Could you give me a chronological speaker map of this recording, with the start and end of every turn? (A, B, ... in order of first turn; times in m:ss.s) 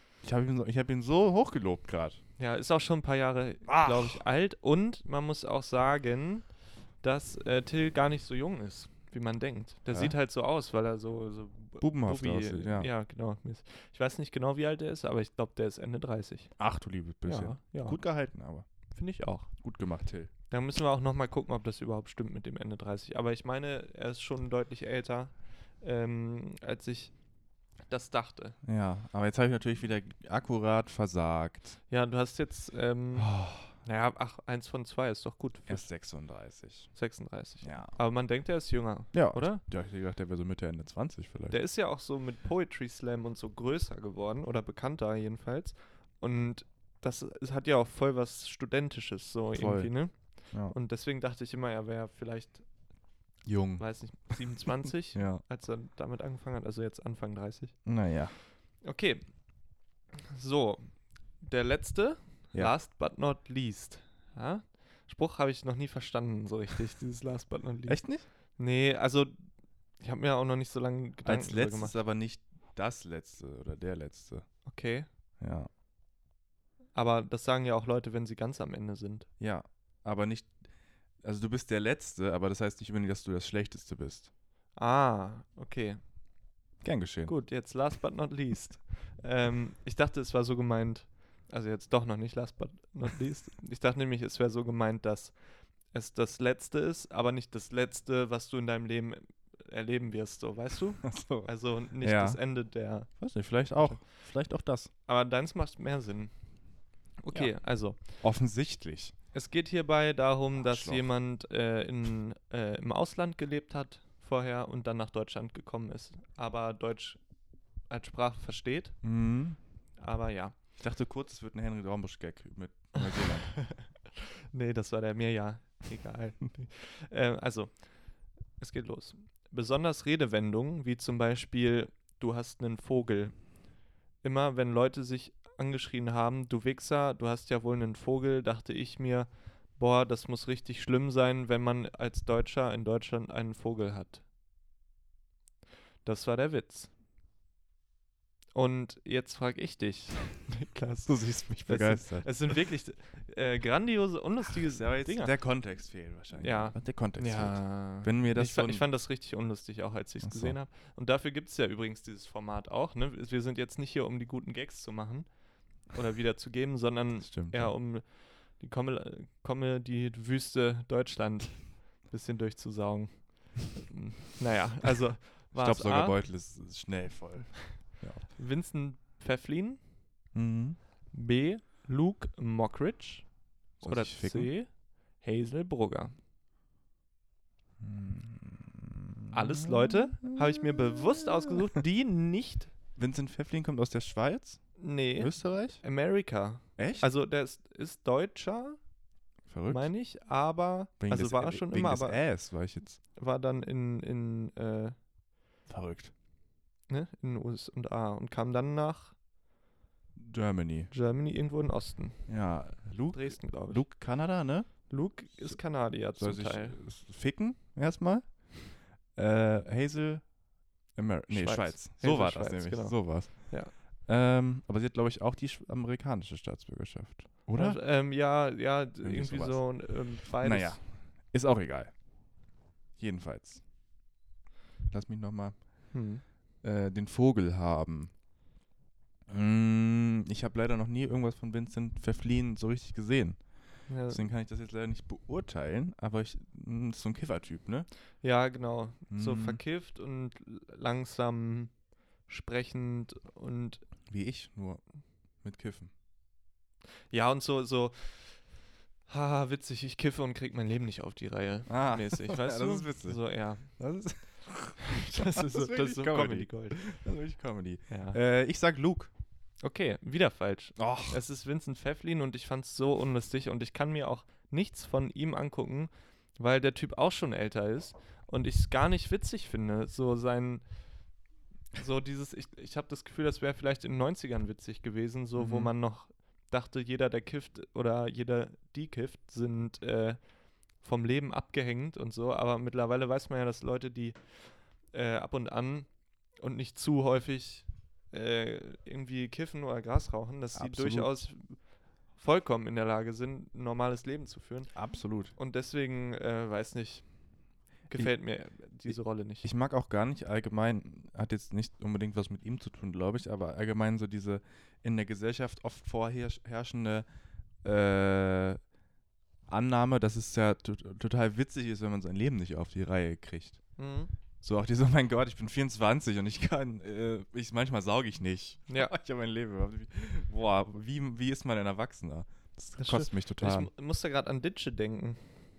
0:00.2-0:02.2 A
0:02.4-0:16.5 B
0:03.7-0:04.2 A
0:11.8-0:12.9 A
0:16.6-0:18.6 A
0:17.2-0:18.0 B
0:18.9-0:19.5 B
0:19.6-0:20.3 A
0:20.5-0:27.2 B
0:27.8-0:28.6 B
0:28.6-0:31.8 A
0:31.9-0:35.9 B
0:33.2-0:33.7 A
0:35.7-0:36.9 A
0:36.9-0:39.6 B
0:37.6-0:38.0 A
0:39.1-0:41.6 A
0:41.5-0:52.6 B
0:49.6-0:50.7 A
0:53.4-0:53.8 A
0:53.8-0:57.8 B
0:55.1-0:55.4 A
0:57.8-0:58.3 A
0:58.8-0:59.2 B
1:00.3-1:09.4 B
1:07.8-1:08.2 A
1:10.0-1:12.0 B
1:11.2-1:14.4 A
1:14.6-1:15.1 B
1:15.4-1:15.7 A
1:16.9-1:19.3 B
1:19.4-1:20.6 A
1:21.2-1:24.3 A
1:24.8-1:26.0 B
1:26.8-1:27.4 A
1:27.2-1:43.2 B
1:41.0-1:42.4 A
1:43.1-1:44.9 A
1:43.7-1:44.0 B
1:45.1-1:46.3 B
1:47.2-1:48.0 B
1:48.2-1:49.1 A
1:49.3-1:57.2 B
1:50.6-1:51.0 A
1:57.9-1:59.0 B
1:59.0-1:59.6 A
2:00.0-2:00.6 B
2:00.8-2:03.7 A
2:03.1-2:03.9 B
2:04.5-2:08.0 B
2:08.6-2:13.4 B
2:14.2-2:24.2 B
2:26.0-2:26.9 B
2:28.5-2:35.3 B
2:31.0-2:32.4 A
2:34.4-2:38.9 A
2:36.4-2:45.3 B
2:40.2-2:40.6 A
2:45.8-2:56.2 B
2:47.2-2:47.7 A
2:55.5-2:58.2 A
2:58.3-2:59.8 B
3:00.3-3:00.8 A
3:01.1-3:06.1 B
3:03.8-3:04.5 A
3:07.8-3:11.5 A
3:09.3-3:12.7 B
3:13.0-3:15.8 A
3:14.8-3:18.8 B
3:16.8-3:17.1 A
3:19.5-3:19.9 A
3:19.7-3:22.2 B
3:21.0-3:23.0 A
3:23.1-3:25.0 B
3:25.7-3:26.1 A
3:26.9-3:29.1 B
3:30.2-3:30.9 A
3:30.9-3:32.5 B
3:32.3-3:40.3 A
3:33.1-3:33.9 B
3:34.9-3:36.8 B
3:40.9-3:47.8 A
3:41.3-3:43.7 B
3:47.5-3:50.8 B
3:49.0-3:52.0 A
3:53.0-3:53.6 A
3:54.9-3:55.9 A
3:55.9-3:56.2 B
3:56.6-3:58.1 A
3:59.3-4:07.9 A
4:03.9-4:04.3 B
4:08.2-4:11.7 B
4:09.1-4:09.6 A
4:12.2-4:13.8 B
4:14.1-4:14.8 A
4:15.4-4:15.9 A
4:17.1-4:18.5 B
4:19.1-4:23.8 B
4:21.7-4:29.1 A
4:24.8-4:26.8 B
4:27.9-4:28.2 B
4:29.6-4:40.6 B
4:30.8-4:31.2 A
4:41.8-4:50.2 B
4:45.4-4:45.7 A
4:50.8-5:01.6 B
5:00.5-5:01.2 A
5:02.1-5:04.8 B
5:04.7-5:05.3 A
5:05.3-5:07.1 B
5:07.8-5:09.5 B
5:08.8-5:17.1 A
5:17.6-5:18.6 A
5:19.5-5:23.6 A
5:23.8-5:24.1 B
5:24.4-5:33.7 A
5:32.8-5:35.2 B